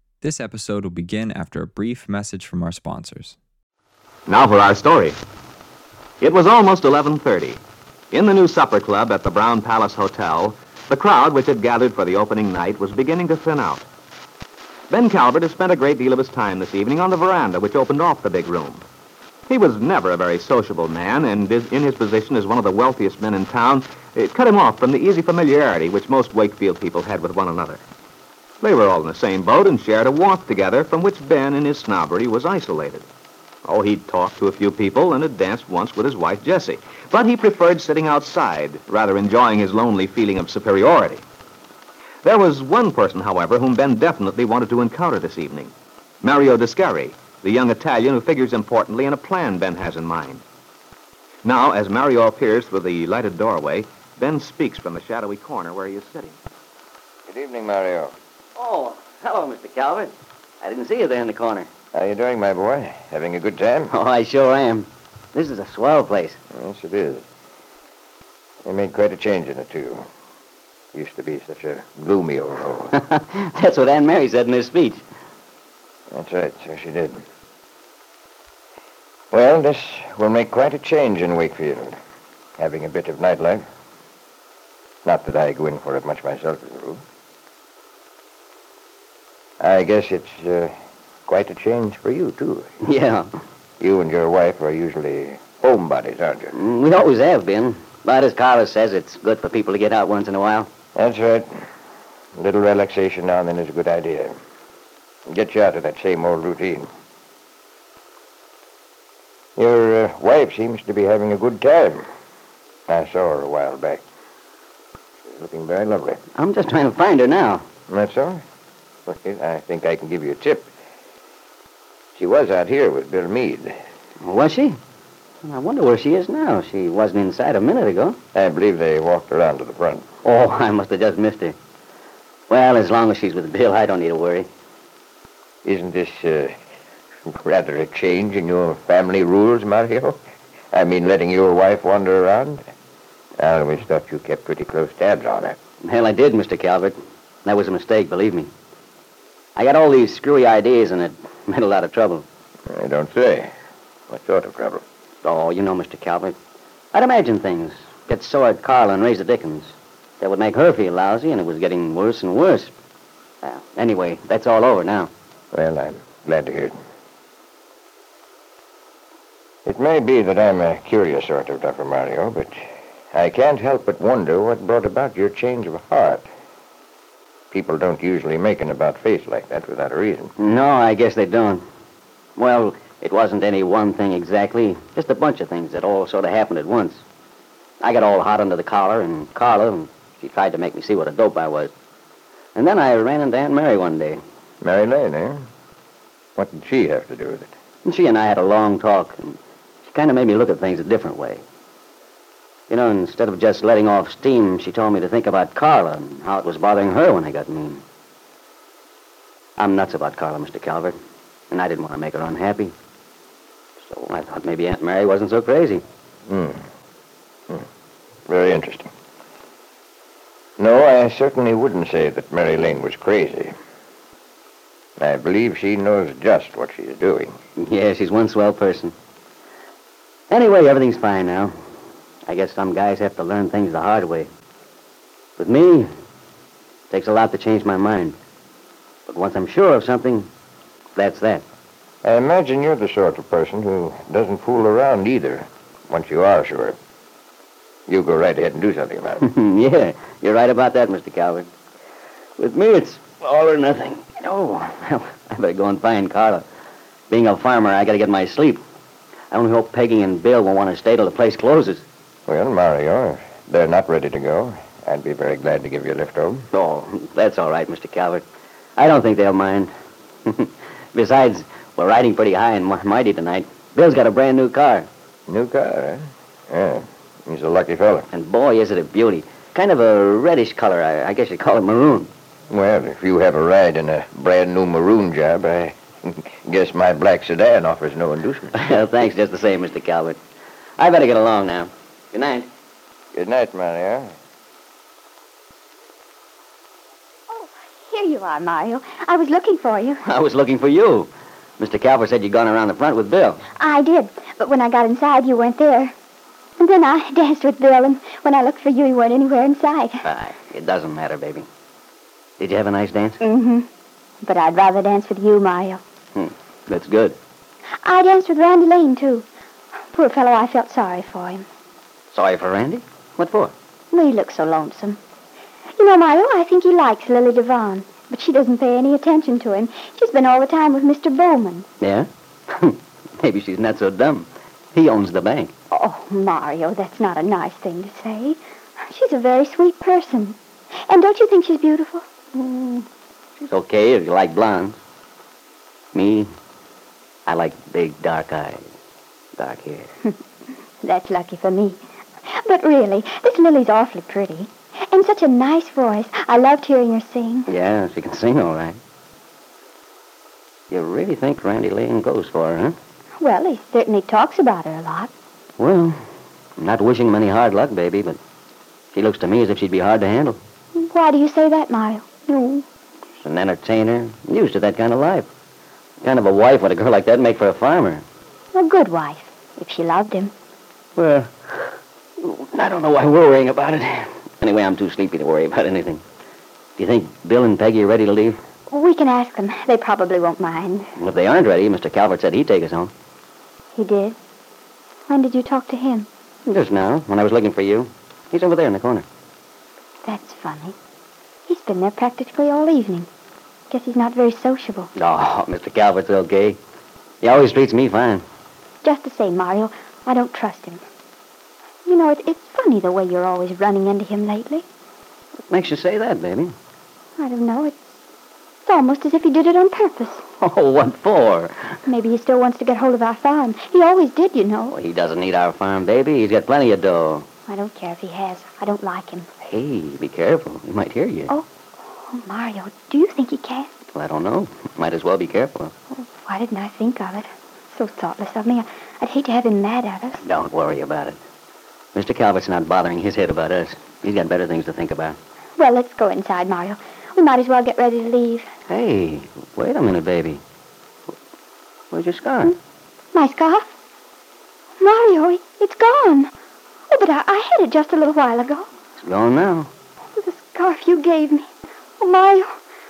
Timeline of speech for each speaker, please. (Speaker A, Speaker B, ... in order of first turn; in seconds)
Speaker A: 0.2-3.4
Speaker B: 4.3-5.2, 6.2-7.6, 8.1-13.9, 14.9-18.8, 19.5-27.8, 28.6-33.1, 33.6-41.2, 42.2-50.4, 51.4-56.4
Speaker C: 57.3-58.1, 61.9-63.9, 66.5-67.2, 68.7-70.0, 70.9-73.0, 76.1-77.2, 79.3-82.0, 82.6-83.6, 85.0-87.0, 89.6-90.7, 91.3-92.7, 93.8-96.6, 101.0-101.5, 102.4-104.3, 105.3-106.9, 109.6-112.0, 112.9-114.0, 115.3-116.2, 117.9-118.4, 119.1-120.7, 122.2-123.8, 128.3-130.1, 135.6-136.5, 137.3-140.2, 140.7-142.6, 143.4-145.6, 152.7-153.5, 154.1-154.8, 165.5-166.7, 169.7-176.3, 177.5-180.3, 194.6-195.5, 196.4-197.5, 216.3-216.6, 218.3-218.9, 220.6-223.5, 225.0-227.3, 242.0-246.8, 247.9-249.3, 262.3-266.5, 275.3-278.1, 282.5-288.7, 293.1-294.1
Speaker D: 58.5-61.7, 63.9-66.4, 72.9-75.0, 92.8-93.3, 96.5-100.7, 116.3-117.7, 124.2-124.8, 125.4-128.2, 130.2-131.6, 132.5-134.5, 145.8-148.5, 149.6-152.3, 155.2-156.4, 156.9-162.7, 163.4-165.1, 180.4-181.7, 182.4-187.0, 187.8-191.7, 192.6-194.2, 197.8-201.4, 202.7-207.8, 209.6-210.9, 211.5-212.7, 213.8-215.8, 227.6-228.9, 230.3-231.5, 232.3-234.3, 235.4-235.9, 236.9-238.2, 239.1-240.3, 241.0-241.4, 249.2-251.5, 252.4-256.4, 257.1-258.6, 259.3-261.9, 266.5-268.2, 268.8-269.7, 270.2-274.9, 278.1-282.1, 288.6-290.2, 290.8-292.5, 300.1-303.4, 310.0-311.5, 312.4-313.2, 316.1-317.2, 322.1-323.5, 331.8-335.5, 342.3-342.9, 343.4-344.8, 345.9-346.3, 347.3-348.7, 349.4-349.9, 357.5-358.8, 360.7-362.8, 365.6-366.0, 366.6-368.2, 368.9-370.4, 373.2-375.3, 376.0-378.0, 381.0-386.0, 386.8-388.4, 391.0-392.9, 396.5-399.1, 405.0-406.6, 407.2-408.2, 415.5-416.6, 420.4-421.8, 424.7-427.3, 429.4-431.3, 433.9-435.7, 440.2-441.2, 441.9-445.2, 448.7-450.4, 451.9-452.6, 459.0-459.7
Speaker E: 297.3-300.0, 303.5-305.9, 306.6-310.0, 313.2-313.7, 314.2-315.8, 317.8-319.3, 319.9-321.5, 323.9-325.0, 325.8-331.7, 335.7-342.1, 350.8-357.4, 363.2-365.1, 370.8-372.7, 378.5-380.3, 388.7-390.9, 393.7-394.2, 395.1-396.1, 400.0-400.8, 401.5-403.1, 403.7-404.9, 408.8-410.8, 411.9-414.6, 417.2-417.9, 418.6-420.2, 421.9-424.7, 427.5-429.3, 432.0-433.7, 435.9-440.2, 445.6-448.5, 453.1-453.7, 454.8-456.3, 456.9-458.7, 460.1-461.5, 462.0-462.6